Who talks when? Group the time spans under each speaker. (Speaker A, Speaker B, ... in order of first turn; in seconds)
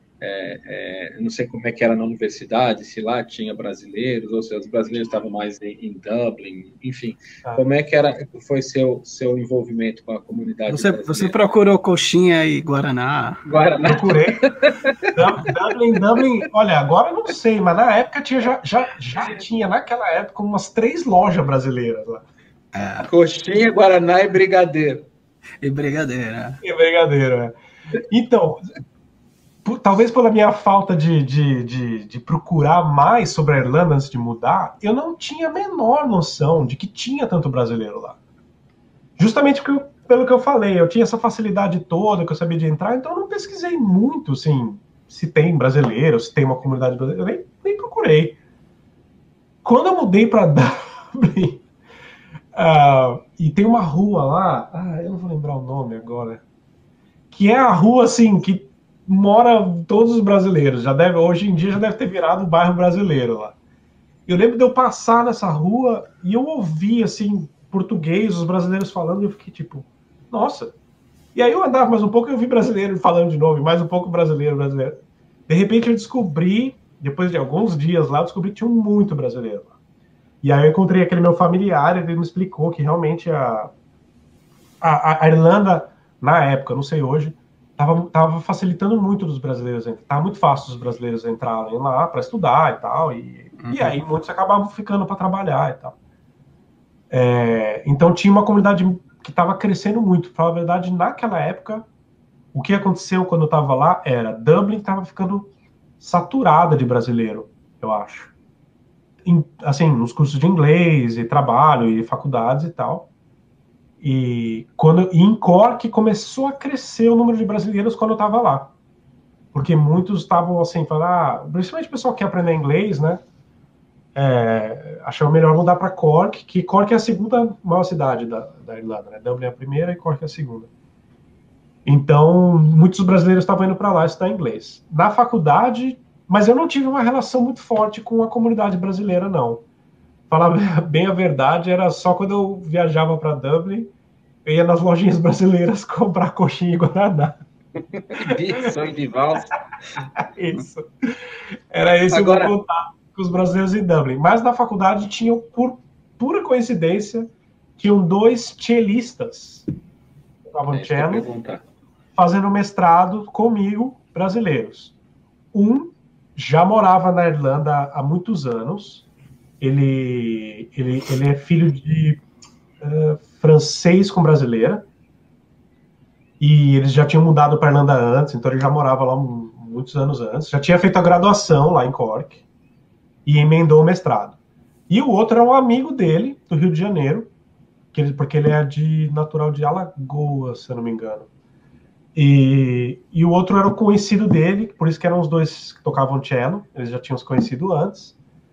Speaker A: 0.2-11.3, 13.4-15.1, 23.0-25.1, 148.1-149.5, 152.1-152.5, 160.7-161.6
Speaker B: 10.7-13.4, 22.7-23.1, 25.6-26.6, 93.6-94.0
Speaker C: 13.8-14.5, 15.1-22.2, 26.6-27.5, 28.1-28.6, 29.6-38.2, 39.2-48.4, 49.6-51.6, 52.5-56.4, 57.3-63.5, 64.3-70.7, 71.3-79.7, 80.4-83.7, 84.8-95.9, 97.1-101.8, 102.5-105.5, 106.0-108.3, 109.2-113.1, 114.0-118.7, 119.5-123.2, 124.1-130.7, 131.8-139.6, 140.3-143.9, 144.4-147.4, 150.2-150.9, 151.7-159.7, 160.5-161.3, 162.2-164.9, 165.5-169.0, 169.6-172.2, 172.8-174.8, 176.4-182.4, 183.2-184.3, 184.9-187.3, 187.9-191.3, 192.1-198.2